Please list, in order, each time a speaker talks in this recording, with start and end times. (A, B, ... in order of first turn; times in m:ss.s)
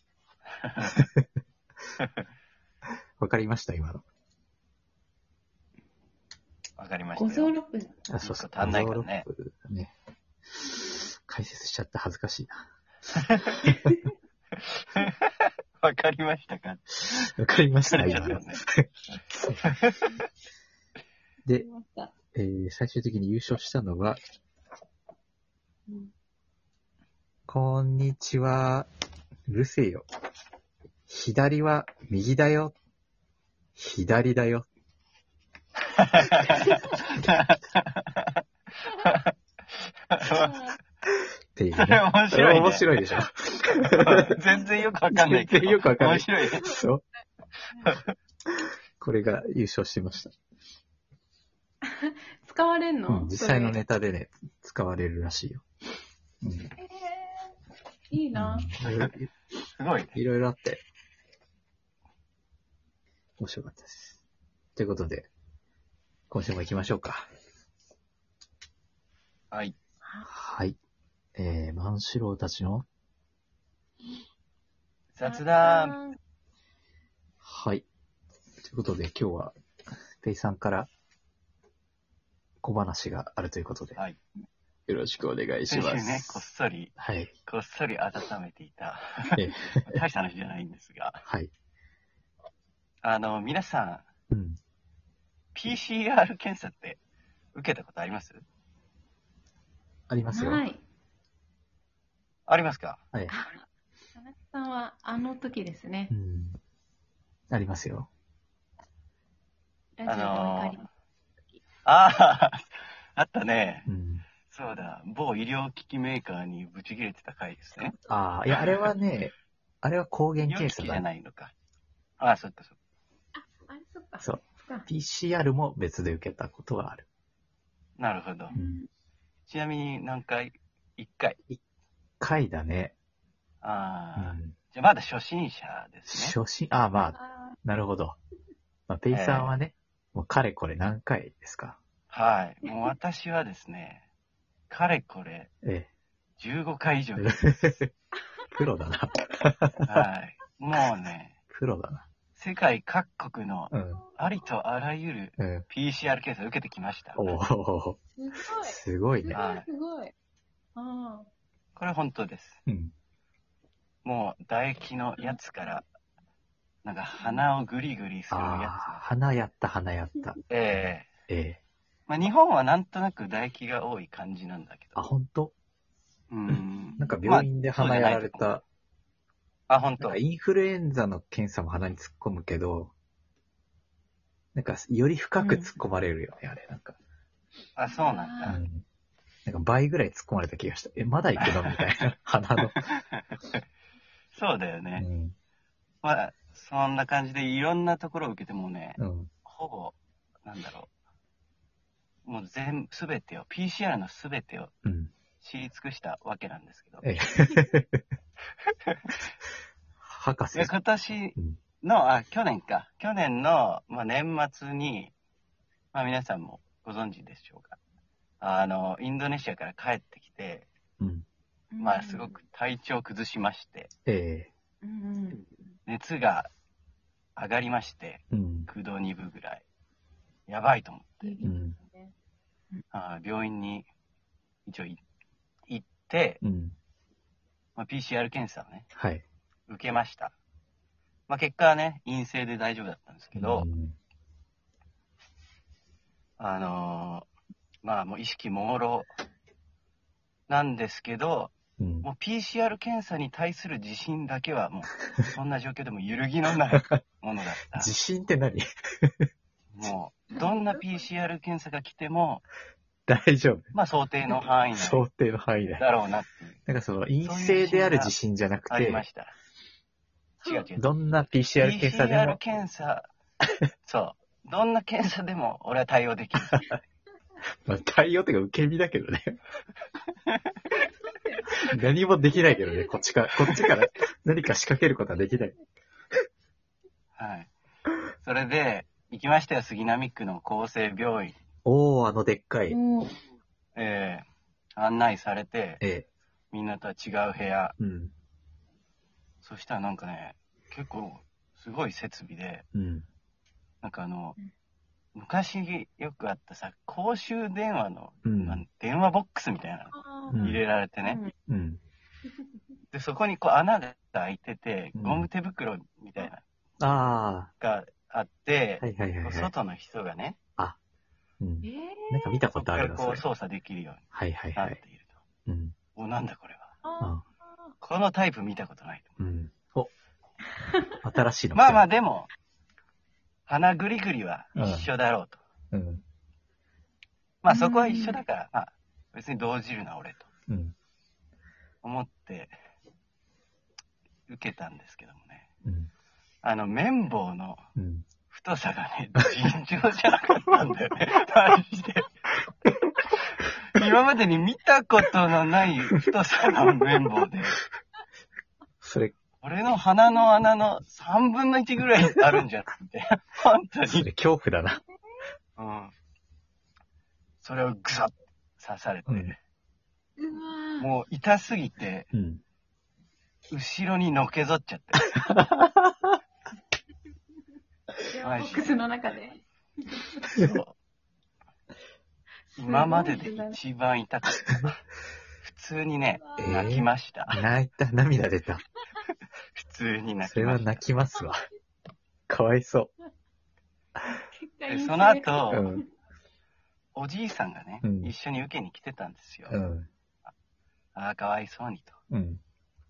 0:00.6-0:01.0 A
0:00.9-0:01.2 B
0:03.2-0:04.0 B
0:06.8-0:07.5 A
0:07.2-0:07.9 C
0:08.1-0:09.9 B
0:08.2-0:09.2 A
0:11.2-0:12.6 B
0:13.6-0:13.9 B
0:13.6-0:13.9 C
0:14.6-0:15.2 A
0:15.8-0:17.3 A
0:17.1-0:19.7 B
0:17.8-0:18.6 A
0:18.1-0:18.4 C
0:19.6-0:20.1 A
0:21.5-0:22.1 C
0:22.3-0:24.2 B
0:27.5-0:28.9 B
0:29.5-0:30.0 B
0:31.1-0:32.7 B
0:33.8-0:34.7 B
0:35.9-0:39.3 A
0:40.1-0:40.7 A
0:40.3-0:40.8 C
0:41.5-0:44.4 B
0:41.7-0:43.2 A
0:44.0-0:46.8 A
0:45.1-0:47.0 B
0:47.8-0:48.1 A
0:49.0-0:50.3 B
0:51.8-0:53.8 C
0:53.1-0:55.6 B
0:56.4-0:56.7 B
0:56.8-0:57.5 C
0:58.1-0:58.7 C
0:58.3-0:59.3 B
0:58.8-0:59.1 A
0:59.8-1:00.1 A
1:00.1-1:00.8 B
1:03.4-1:04.2 B
1:04.8-1:05.3 B
1:06.3-1:07.2 B
1:10.0-1:10.3 C
1:10.2-1:10.8 B
1:11.4-1:12.8 B
1:15.1-1:16.0 A
1:15.2-1:16.2 C
1:17.4-1:17.9 B
1:18.7-1:19.6 B
1:20.2-1:20.9 B
1:22.6-1:24.0 B
1:24.9-1:26.4 B
1:25.7-1:26.9 A
1:27.0-1:27.3 B
1:27.4-1:31.2 A
1:29.3-1:30.0 B
1:31.2-1:31.5 B
1:33.0-1:34.0 A
1:34.3-1:34.6 B
1:35.5-1:37.0 A
1:37.5-1:38.4 A
1:40.1-1:40.6 B
1:40.3-1:40.8 C
1:42.5-1:43.0 A
1:43.3-1:46.1 C
1:46.1-1:46.6 B
1:47.5-1:48.1 B
1:50.0-1:50.9 C
1:50.0-1:50.8 A
1:51.8-1:53.9 A
1:53.9-1:54.3 B
1:54.5-1:57.9 A
1:57.8-1:58.2 C
1:58.1-2:01.0 B
1:58.5-1:58.9 A
2:00.4-2:01.5 A
2:02.2-2:02.7 A
2:03.3-2:04.9 C
2:04.2-2:07.0 B
2:08.0-2:08.5 A
2:08.5-2:08.9 C
2:08.5-2:08.8 B
2:09.5-2:11.4 A
2:12.2-2:12.9 B
2:13.6-2:16.4 A
2:14.2-2:14.6 B
2:16.1-2:18.2 B
2:17.1-2:17.6 C
2:18.9-2:21.8 B
2:19.1-2:19.5 A
2:22.1-2:24.0 A
2:24.7-2:25.5 A
2:25.6-2:25.9 B
2:26.4-2:27.5 A
2:27.2-2:27.9 B
2:28.5-2:30.1 B
2:29.9-2:31.3 A
2:31.5-2:32.0 B
2:32.4-2:37.4 A
2:33.7-2:34.0 B
2:35.4-2:35.6 B
2:37.2-2:38.0 B
2:38.2-2:40.1 C
2:38.5-2:39.4 B
2:39.3-2:39.7 A
2:40.7-2:41.3 C
2:41.8-2:42.6 A
2:42.7-2:42.9 B
2:44.0-2:45.9 A
2:46.8-2:49.0 A
2:47.2-2:47.4 C
2:48.3-2:50.4 B
2:50.5-2:51.1 A
2:51.3-2:51.6 B
2:52.1-2:55.0 A
2:55.0-2:55.5 B
2:56.3-2:58.6 A
2:56.5-2:58.6 B
2:57.0-2:57.2 C
2:59.7-3:00.2 A
3:00.0-3:02.9 B
3:04.5-3:07.0 B
3:05.4-3:05.7 C
3:07.8-3:08.6 A
3:07.9-3:08.6 C
3:08.4-3:08.8 B
3:09.4-3:12.8 B
3:11.4-3:12.0 A
3:12.6-3:13.4 A
3:14.3-3:15.0 A
3:15.0-3:15.3 B
3:16.0-3:20.9 A
3:19.0-3:19.3 B
3:22.2-3:24.7 A
3:24.8-3:25.1 B
3:25.4-3:27.0 A
3:27.0-3:28.0 B
3:28.9-3:29.2 A
3:30.0-3:30.7 B
3:30.5-3:35.1 A
3:35.9-3:37.8 A
3:38.4-3:40.7 A
3:41.0-3:41.2 B
3:41.7-3:42.4 C
3:41.8-3:43.9 A
3:44.0-3:44.5 B
3:44.8-3:45.5 C
3:45.8-3:46.5 A
3:47.4-3:49.6 A
3:48.3-3:48.7 B
3:50.5-3:51.4 A
3:51.2-3:52.1 C
3:51.4-3:51.8 B
3:52.9-3:53.9 A
3:54.6-3:55.0 A
3:55.7-3:56.4 A
3:56.4-3:56.7 B
3:57.8-3:58.9 A
3:58.9-3:59.2 B
3:59.7-4:00.3 A
4:01.3-4:03.7 A
4:03.4-4:03.9 B
4:06.4-4:07.3 A
4:07.8-4:09.1 A
4:10.5-4:17.9 A
4:11.8-4:12.1 B
4:17.7-4:19.3 B
4:19.7-4:22.4 A
4:20.4-4:20.8 C
4:23.1-4:23.7 B
4:23.7-4:25.0 A
4:24.7-4:25.9 B
4:25.8-4:26.6 A
4:26.7-4:29.0 B
4:27.2-4:28.1 A
4:28.7-4:29.3 A
4:30.4-4:30.7 C
4:30.4-4:33.1 A
4:30.8-4:32.4 B
4:33.8-4:36.6 A
4:37.6-4:39.4 B
4:40.7-4:41.7 C
4:41.7-4:45.5 B
4:42.3-4:43.1 C
4:47.2-4:47.5 A
4:48.2-4:51.4 A
4:51.6-4:52.8 B
4:52.7-4:53.2 C
4:53.8-4:54.2 A
4:54.8-4:55.8 A
4:55.8-4:56.1 B
4:56.5-4:57.7 A
4:57.8-4:58.1 B
4:59.4-5:02.6 A
5:02.7-5:03.0 B
5:03.8-5:04.4 A
5:05.1-5:11.2 A
5:08.2-5:08.6 B
5:09.9-5:11.3 C
5:10.3-5:10.6 B
5:11.5-5:11.8 B
5:12.9-5:16.4 A
5:15.0-5:15.3 B
5:16.8-5:17.5 B
5:17.6-5:20.4 A
5:18.8-5:19.5 B
5:21.4-5:23.2 B
5:21.6-5:22.4 C
5:22.6-5:24.0 A
5:24.1-5:24.8 B
5:24.6-5:25.1 A
5:25.4-5:25.7 B
5:25.9-5:26.7 A
5:26.8-5:27.7 C
5:27.8-5:29.1 A
5:29.2-5:29.9 B
5:31.0-5:31.8 B
5:31.5-5:32.3 A
5:33.5-5:35.4 A
5:34.6-5:34.9 B
5:35.7-5:36.0 B
5:37.4-5:40.3 A
5:37.5-5:38.2 C
5:40.5-5:40.7 B
5:41.8-5:42.5 A
5:44.3-5:45.4 A
5:45.6-5:45.9 B
5:46.4-5:47.6 A
5:47.8-5:48.1 B
5:48.3-5:52.1 A
5:53.3-5:57.6 A
5:58.8-5:59.1 B
5:59.4-6:04.0 A
6:03.8-6:04.8 B
6:05.6-6:05.9 A
6:07.4-6:09.4 A
6:09.1-6:09.3 B
6:10.2-6:10.9 C
6:10.8-6:12.1 A
6:12.1-6:12.4 B
6:13.5-6:15.2 A
6:15.1-6:16.2 B
6:18.1-6:20.3 C
6:18.2-6:18.8 A
6:20.3-6:20.8 A
6:22.5-6:23.6 C
6:22.6-6:24.8 A
6:25.4-6:27.4 A
6:26.2-6:26.7 C
6:26.4-6:28.6 B
6:29.6-6:30.8 A
6:30.2-6:31.4 B
6:32.3-6:32.9 B
6:34.3-6:35.8 C
6:34.7-6:35.6 A
6:35.5-6:35.8 B
6:36.9-6:39.6 A
6:37.8-6:38.1 B
6:39.5-6:39.9 B
6:40.9-6:42.0 A
6:42.1-6:42.4 B